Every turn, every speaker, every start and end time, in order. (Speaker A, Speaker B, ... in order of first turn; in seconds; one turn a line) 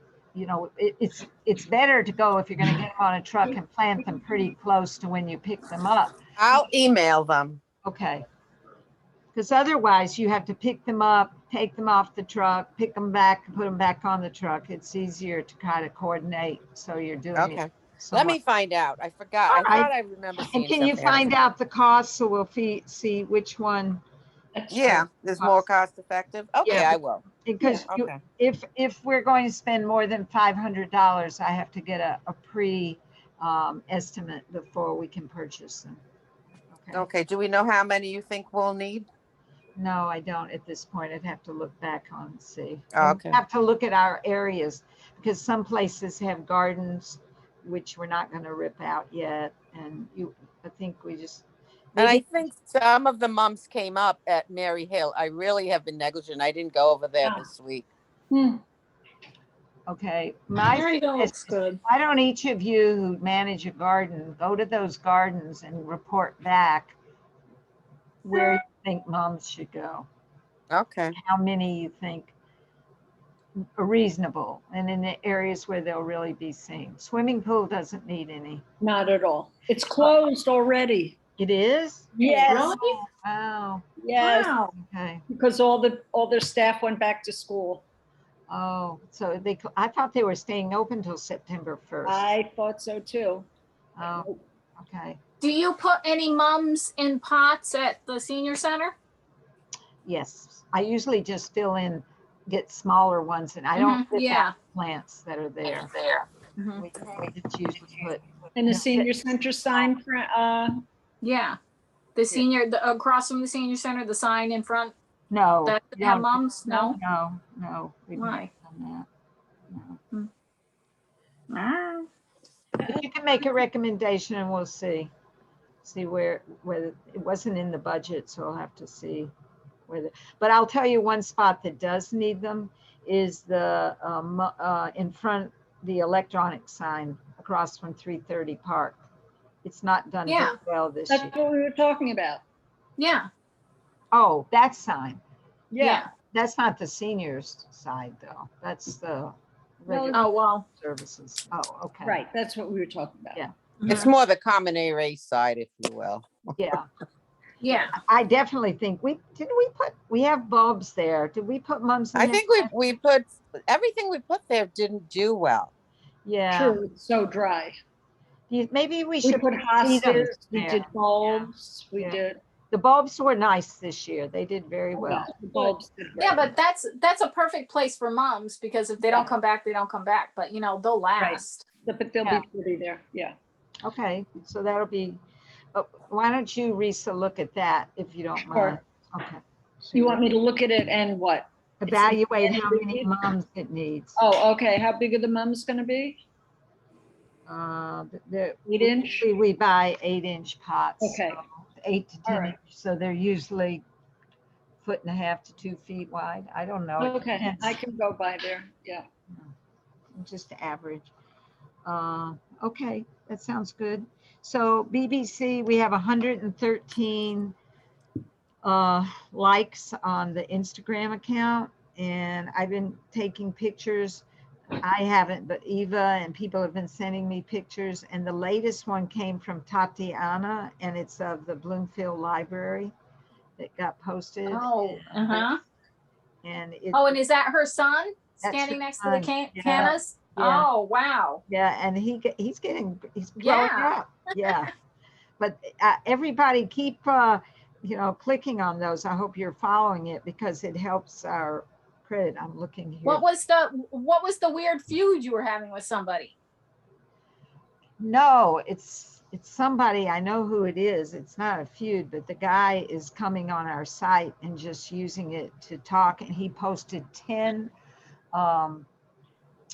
Speaker A: 0.3-6.1
Speaker B: 6.4-7.6
Speaker A: 7.8-8.2
Speaker A: 9.3-18.4
Speaker B: 17.3-21.3
Speaker A: 19.5-24.0
Speaker C: 24.5-25.0
Speaker B: 24.7-27.2
Speaker A: 25.4-25.6
Speaker A: 26.6-36.0
Speaker B: 27.8-28.2
Speaker A: 36.7-37.0
Speaker B: 36.9-39.1
Speaker A: 39.8-51.4
Speaker B: 42.9-43.4
Speaker A: 51.9-52.5
Speaker B: 52.0-57.9
Speaker C: 58.3-58.6
Speaker A: 59.9-67.0
Speaker D: 60.7-61.8
Speaker A: 68.2-70.0
Speaker D: 68.3-68.6
Speaker B: 70.7-71.2
Speaker A: 71.2-72.3
Speaker A: 73.6-78.6
Speaker C: 78.8-81.2
Speaker A: 81.4-85.2
Speaker C: 82.2-82.8
Speaker D: 82.2-83.0
Speaker C: 84.0-84.5
Speaker D: 84.2-84.7
Speaker C: 85.3-87.8
Speaker A: 88.5-92.3
Speaker C: 92.0-93.5
Speaker A: 94.0-95.2
Speaker C: 94.0-94.4
Speaker D: 95.4-98.9
Speaker A: 100.0-106.0
Speaker D: 103.8-104.5
Speaker D: 106.6-106.8
Speaker A: 106.8-109.9
Speaker C: 108.5-110.8
Speaker D: 111.2-111.6
Speaker D: 112.1-114.9
Speaker A: 115.3-119.0
Speaker D: 115.7-117.0
Speaker D: 118.1-118.5
Speaker A: 119.7-120.0
Speaker D: 121.5-122.1
Speaker A: 122.8-125.1
Speaker A: 125.8-129.3
Speaker A: 129.9-139.0
Speaker A: 139.6-141.3
Speaker D: 140.3-140.6
Speaker C: 141.1-142.4
Speaker D: 143.0-143.3
Speaker A: 144.1-145.2
Speaker C: 145.7-146.1
Speaker D: 145.8-146.1
Speaker A: 146.3-152.2
Speaker C: 149.9-150.2
Speaker D: 150.1-150.7
Speaker C: 152.0-153.4
Speaker D: 153.8-154.1
Speaker B: 153.9-156.4
Speaker A: 156.6-156.9
Speaker D: 157.6-157.9
Speaker A: 157.9-162.7
Speaker B: 162.1-165.7
Speaker A: 166.2-166.8
Speaker C: 166.5-167.7
Speaker A: 168.5-175.3
Speaker C: 169.2-172.4
Speaker C: 174.9-176.4
Speaker D: 175.5-181.6
Speaker C: 179.0-179.3
Speaker C: 181.2-183.3
Speaker A: 183.8-185.2
Speaker A: 185.7-190.2
Speaker C: 188.4-188.8
Speaker C: 189.9-193.2
Speaker A: 191.8-194.2
Speaker C: 194.2-196.2
Speaker A: 197.5-203.8
Speaker C: 198.7-199.3
Speaker C: 201.0-201.4
Speaker C: 202.2-202.6
Speaker A: 204.8-207.8
Speaker C: 207.0-209.1
Speaker A: 210.1-211.1
Speaker A: 211.8-217.5
Speaker A: 218.6-224.2
Speaker A: 224.8-232.9
Speaker A: 233.6-235.6
Speaker D: 234.4-235.6
Speaker A: 236.4-237.2
Speaker D: 236.9-241.4
Speaker A: 238.4-240.7
Speaker A: 241.5-244.7
Speaker D: 243.4-243.9
Speaker A: 245.4-253.2
Speaker D: 253.0-256.3
Speaker A: 258.0-267.7
Speaker A: 268.3-268.9